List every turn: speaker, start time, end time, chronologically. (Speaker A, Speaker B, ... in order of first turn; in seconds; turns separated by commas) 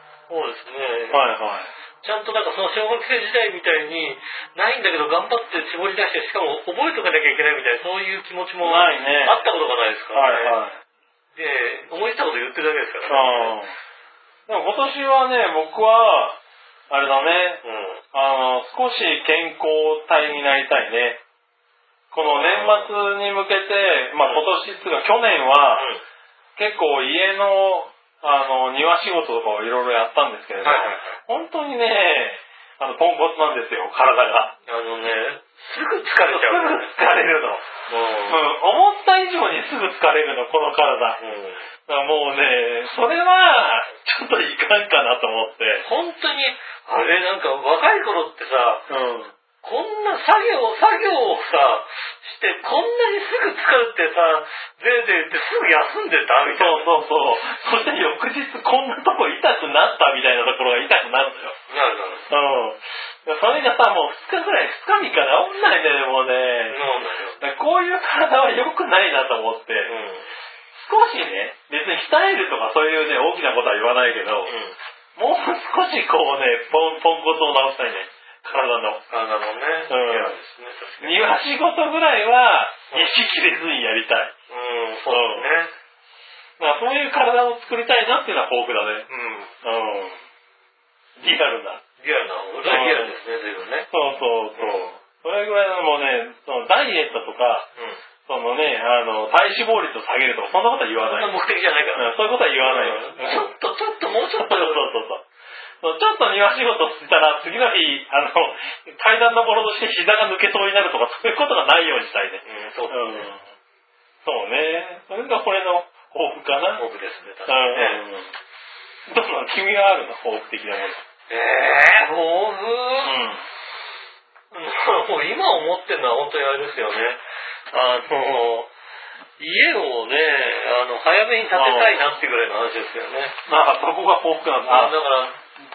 Speaker A: 0.3-1.2, Speaker B: 1.1-1.7, Speaker A: 2.0-10.6, Speaker B: 8.6-9.5, Speaker B: 10.1-10.8, Speaker A: 11.3-13.6, Speaker B: 13.1-13.7, Speaker B: 14.5-16.4, Speaker B: 16.9-17.6, Speaker A: 17.6-18.0, Speaker B: 18.1-21.2, Speaker B: 22.1-25.9, Speaker A: 22.2-22.9, Speaker A: 24.2-24.5, Speaker A: 25.8-26.0, Speaker B: 26.6-34.5, Speaker A: 30.6-31.2, Speaker A: 34.7-36.9, Speaker B: 36.2-37.6, Speaker A: 37.9-38.4, Speaker B: 38.3-41.2, Speaker A: 41.2-41.7, Speaker B: 41.9-45.9, Speaker A: 45.9-48.9, Speaker B: 48.9-49.3, Speaker A: 49.6-56.9, Speaker B: 56.5-61.6, Speaker A: 61.7-62.3, Speaker B: 62.3-66.8, Speaker A: 66.7-67.5, Speaker B: 67.4-69.9, Speaker A: 69.9-70.3, Speaker B: 70.7-74.5, Speaker A: 74.5-74.8, Speaker B: 75.2-79.0, Speaker A: 79.1-81.3, Speaker B: 79.9-80.4, Speaker B: 81.0-84.3, Speaker A: 84.5-85.7, Speaker B: 85.1-85.5, Speaker B: 86.6-89.1, Speaker A: 89.1-89.5, Speaker B: 89.6-90.2, Speaker B: 91.2-91.8, Speaker A: 92.0-93.9, Speaker B: 92.7-93.2, Speaker B: 93.9-97.7, Speaker A: 94.6-94.8, Speaker B: 98.3-101.3, Speaker A: 101.0-104.9, Speaker B: 101.9-103.5, Speaker B: 104.3-105.2, Speaker B: 105.8-113.4, Speaker A: 112.4-113.3, Speaker B: 114.2-116.8, Speaker A: 116.8-118.0, Speaker B: 117.5-118.3, Speaker B: 119.1-121.0, Speaker A: 121.3-123.2, Speaker B: 123.0-123.4, Speaker A: 124.5-128.7, Speaker A: 129.4-133.4, Speaker B: 131.5-132.1, Speaker B: 133.5-135.0, Speaker A: 134.7-135.4